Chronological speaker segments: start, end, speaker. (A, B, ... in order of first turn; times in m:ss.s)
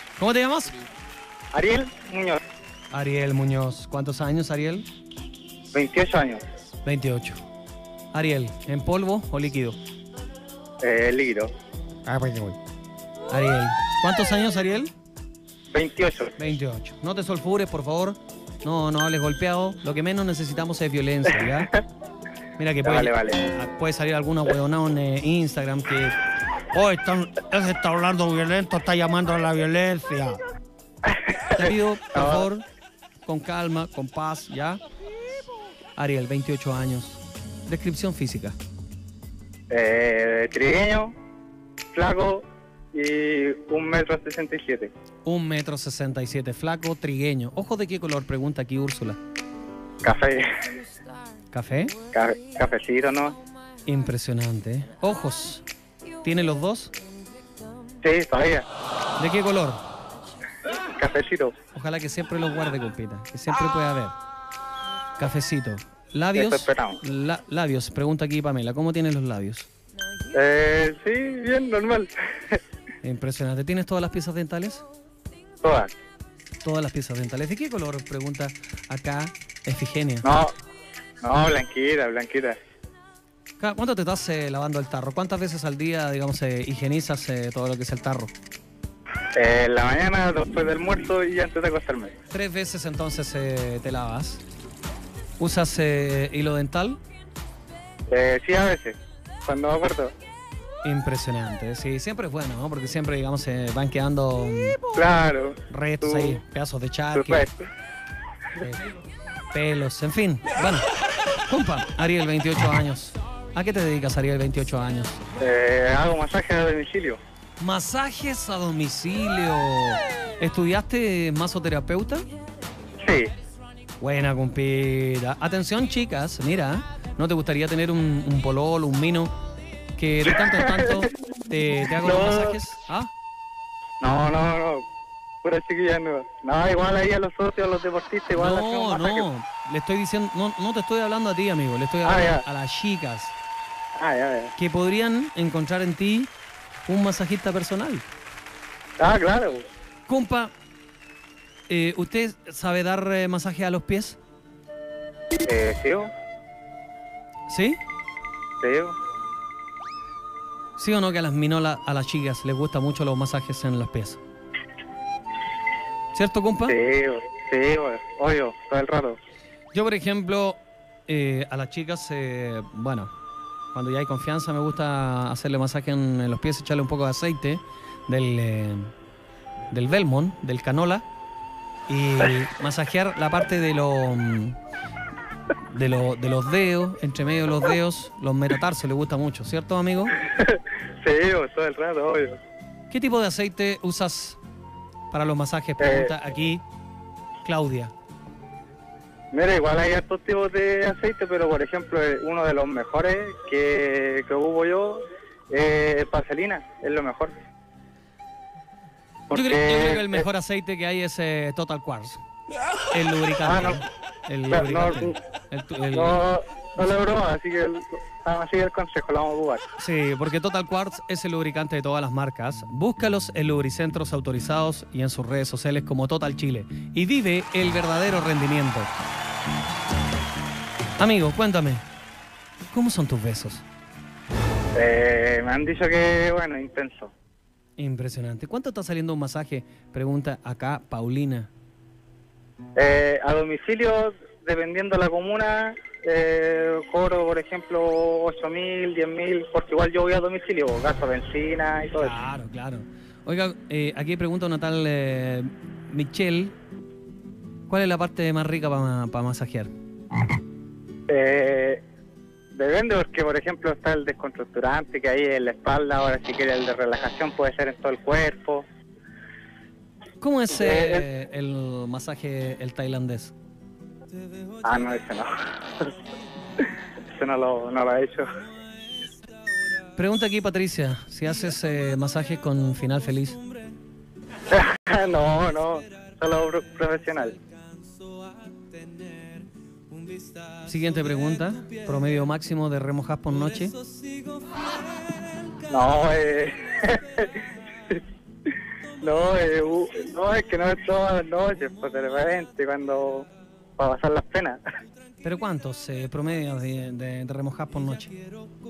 0:00.2-0:00.8 A
0:01.5-0:02.4 B
0:02.9-0:04.9 A
0:05.7-0:06.4 B
0:06.8-0:07.4 A
0:08.1-0:09.8 A
0:10.8-0:11.5 B
0:12.1-0:12.6 A
0:13.3-0:14.9 A
0:15.7-0:16.3 B
0:16.4-0:21.7 A
0:21.4-0:21.8 B
0:22.6-0:26.2 A
0:22.8-0:23.4 B
0:26.7-0:30.4 A
0:31.0-0:32.5 B
0:31.5-0:32.6 A
0:33.2-0:34.8 A
0:36.0-0:38.6 A
0:39.7-0:41.1 B
0:41.9-0:44.9 B
0:45.2-0:49.2 A
0:50.0-0:50.6 B
0:51.5-0:51.9 A
0:52.1-0:53.4 B
0:53.8-0:55.6 A
0:56.2-0:56.9 A
0:58.0-0:58.6 B
0:59.2-0:59.8 A
1:01.0-1:01.5 B
1:01.7-1:04.1 A
1:05.2-1:09.7 A
1:06.3-1:07.0 B
1:10.3-1:12.6 B
1:13.0-1:14.8 A
1:15.6-1:15.9 B
1:16.6-1:20.2 A
1:20.2-1:20.5 B
1:21.2-1:22.6 B
1:23.6-1:28.3 A
1:29.4-1:32.1 B
1:32.3-1:34.4 A
1:35.4-1:37.0 A
1:38.1-1:40.1 B
1:40.8-1:44.8 A
1:44.9-1:46.4 B
1:45.7-1:47.5 A
1:47.1-1:47.7 B
1:48.6-1:48.9 A
1:49.5-1:50.8 A
1:51.5-1:55.2 A
1:55.4-1:57.2 B
1:57.6-2:02.2 A
2:03.0-2:03.3 B
2:04.0-2:09.3 A
2:10.0-2:13.1 A
2:10.3-2:10.9 B
2:11.9-2:12.6 B
2:14.0-2:14.8 B
2:15.4-2:19.3 B
2:18.3-2:23.3 A
2:22.0-2:22.4 B
2:24.0-2:24.5 B
2:24.6-2:26.3 A
2:26.9-2:28.1 A
2:29.0-2:29.6 B
2:30.1-2:30.5 A
2:31.7-2:34.2 A
2:35.4-2:36.1 B
2:37.5-2:37.8 A
2:38.6-2:38.9 B
2:40.8-2:44.2 A
2:46.1-2:46.8 A
2:46.7-2:49.2 B
2:49.7-2:53.1 A
2:53.7-2:58.9 A
2:59.7-3:01.0 A
3:01.9-3:04.6 A
3:05.7-3:10.2 A
3:10.2-3:12.4 B
3:12.9-3:14.4 A
3:15.1-3:16.6 A
3:15.8-3:16.1 B
3:17.4-3:17.9 A
3:19.3-3:27.3 B
3:29.3-3:30.2 B
3:29.3-3:32.2 A
3:32.9-3:36.2 A
3:33.4-3:33.8 B
3:34.5-3:35.2 B
3:35.9-3:39.6 B
3:39.8-3:48.9 A
3:51.0-3:51.8 A
3:52.7-3:53.6 A
3:54.8-3:57.1 B
3:57.8-4:01.5 A
4:02.8-4:12.2 B
4:12.0-4:16.5 A
4:17.7-4:19.7 A
4:21.1-4:21.8 B
4:22.5-4:28.6 B
4:30.2-4:33.3 A
4:30.5-4:31.1 B
4:34.6-4:35.9 B
4:37.1-4:38.3 B
4:39.9-4:43.4 A
4:44.5-4:47.4 B
4:50.6-4:53.7 A
4:55.6-4:58.0 B
4:59.0-5:04.6 B
5:05.2-5:08.2 A